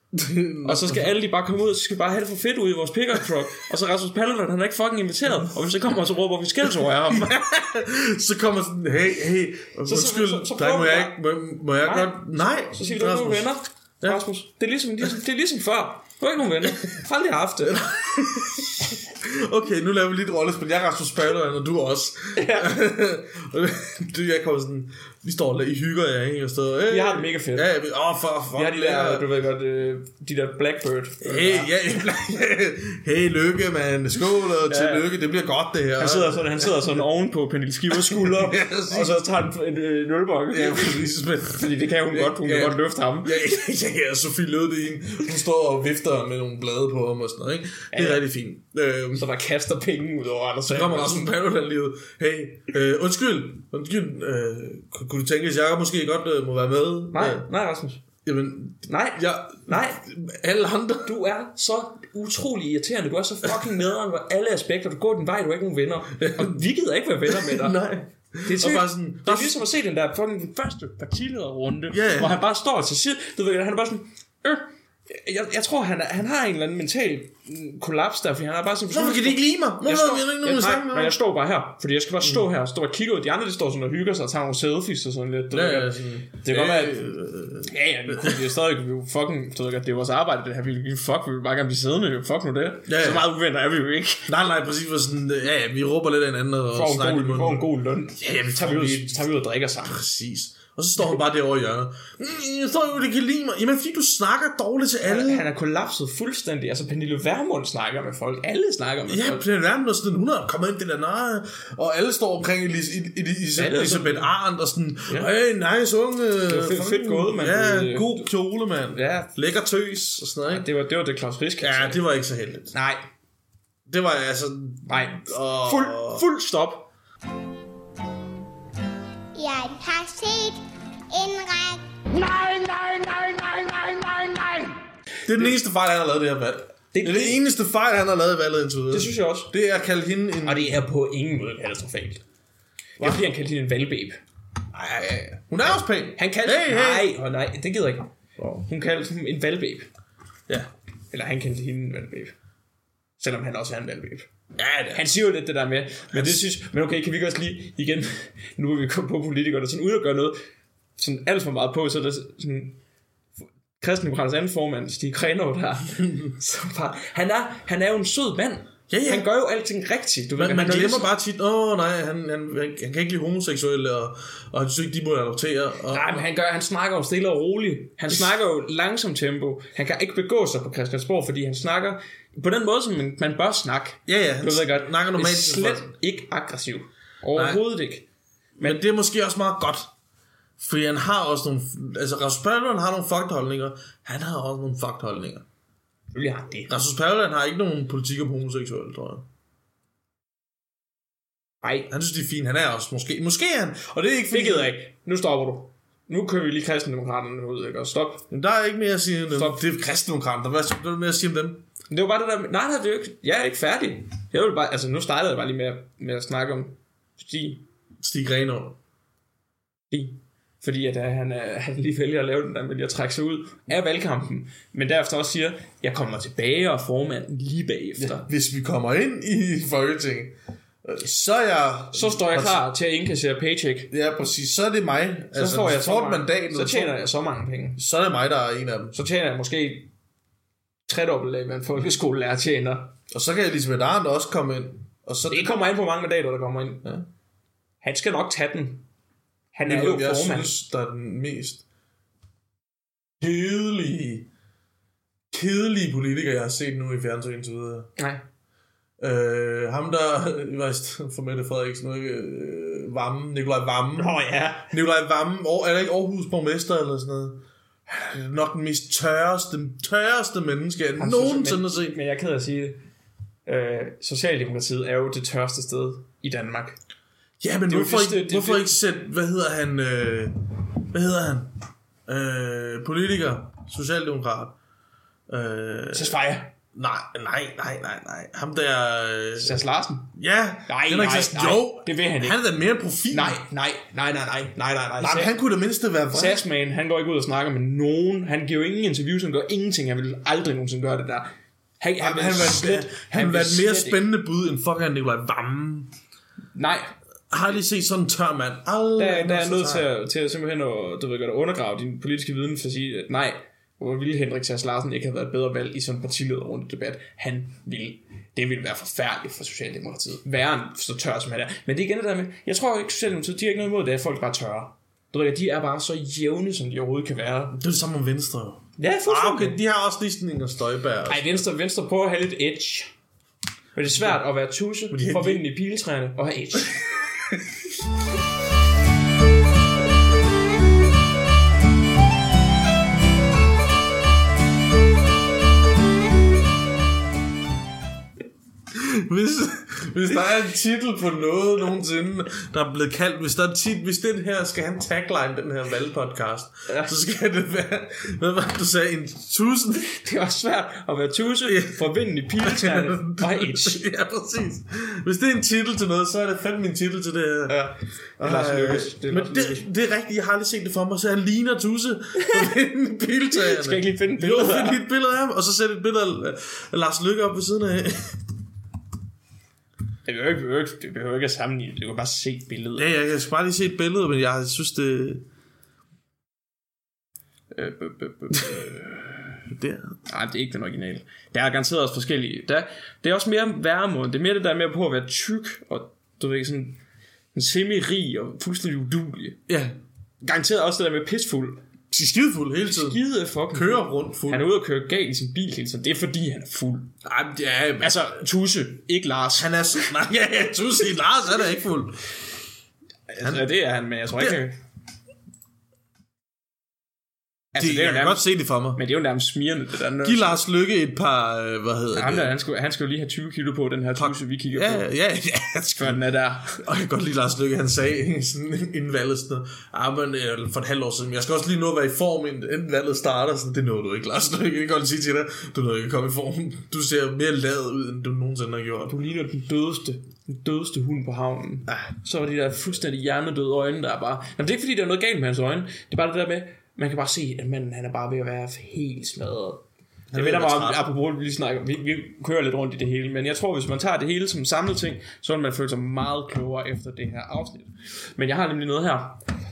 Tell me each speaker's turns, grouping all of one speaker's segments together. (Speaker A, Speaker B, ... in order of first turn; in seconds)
Speaker A: 0.1-1.1, 7.1-13.5, 17.6-29.2, 31.2-37.0, 37.9-39.2, 40.5-49.3, 50.7-57.5, 58.2-61.1, 66.2-66.6, 67.2-69.6, 71.9-72.4, 78.9-81.2, 85.5-88.5, 92.9-93.3, 94.3-97.7, 98.2-99.3, 99.8-105.5, 109.1-120.7, 121.6-122.7, 123.8-126.2, 135.2-140.8, 143.0-143.2, 144.7-147.1, 154.6-155.1, 156.1-156.4, 168.9-169.3, 170.4-176.2, 184.1-185.9, 187.3-187.6, 188.6-189.9, 190.6-195.4, 196.7-199.2, 201.9-204.7, 208.3-211.7, 218.0-218.8, 228.0-232.7, 233.9-236.9, 237.8-238.9, 243.1-245.5, 249.7-251.6, 253.2-254.3, 255.3-257.9, 259.0-264.2, 264.7-272.0, 277.4-281.5, 282.1-284.5, 285.3-286.2, 286.7-289.6, 290.1-293.4, 295.0-296.4, 302.0-305.9, 307.3-309.9, 327.5-331.4, 334.9-335.4, 348.7-359.9, 361.4-367.6, 368.2-378.2, 382.8-385.2, 387.6-388.9, 389.4-389.9, 399.5-399.8, 401.9-404.4, 407.0-408.2, 409.4-412.0, 417.6-418.8, 420.0-422.3, 423.9-426.0, 426.5-438.9, 450.1-450.9
Speaker B: 0.6-7.3, 9.8-11.2, 11.8-18.6, 22.3-22.8, 26.9-27.7, 28.5-31.7, 34.7-35.0, 36.0-43.4, 47.9-48.2, 49.1-51.3, 57.1-58.0, 58.9-60.0, 61.0-67.8, 68.4-87.0, 87.6-94.3, 96.7-100.0, 105.0-109.4, 113.5-114.3, 116.5-118.3, 118.9-119.3, 120.5-122.0, 122.7-123.0, 124.8-126.9, 132.1-134.8, 136.9-137.4, 138.9-139.5, 140.4-142.2, 143.0-144.2, 146.2-149.9, 151.1-152.3, 153.2-154.3, 154.9-160.4, 161.0-162.8, 163.8-171.1, 175.9-188.1, 196.1-196.7, 201.6-201.9, 204.3-208.2, 209.3-209.6, 211.9-217.6, 219.9-228.3, 231.9-233.9, 235.3-237.8, 238.9-239.9, 240.9-242.9, 245.3-246.8, 247.8-248.8, 249.5-250.5, 258.0-258.2, 264.0-264.7, 271.0-272.8, 273.4-276.8, 277.7-278.7, 285.9-286.5, 289.4-290.1, 290.7-292.4, 293.1-295.3, 296.1-304.0, 306.5-306.9, 309.0-327.6, 328.8-329.6, 331.1-332.9, 333.7-336.8, 356.7-356.9, 359.9-363.9, 367.5-369.6, 372.2-372.5, 373.3-374.8, 380.1-382.9, 387.6-388.6, 390.1-396.8, 397.3-399.4, 400.2-401.6, 402.6-406.9, 407.8-409.6, 413.1-414.6, 417.5-420.4, 421.9-424.9, 425.8-426.6, 438.9-449.6, 450.1-459.2
Speaker C: 129.3-131.9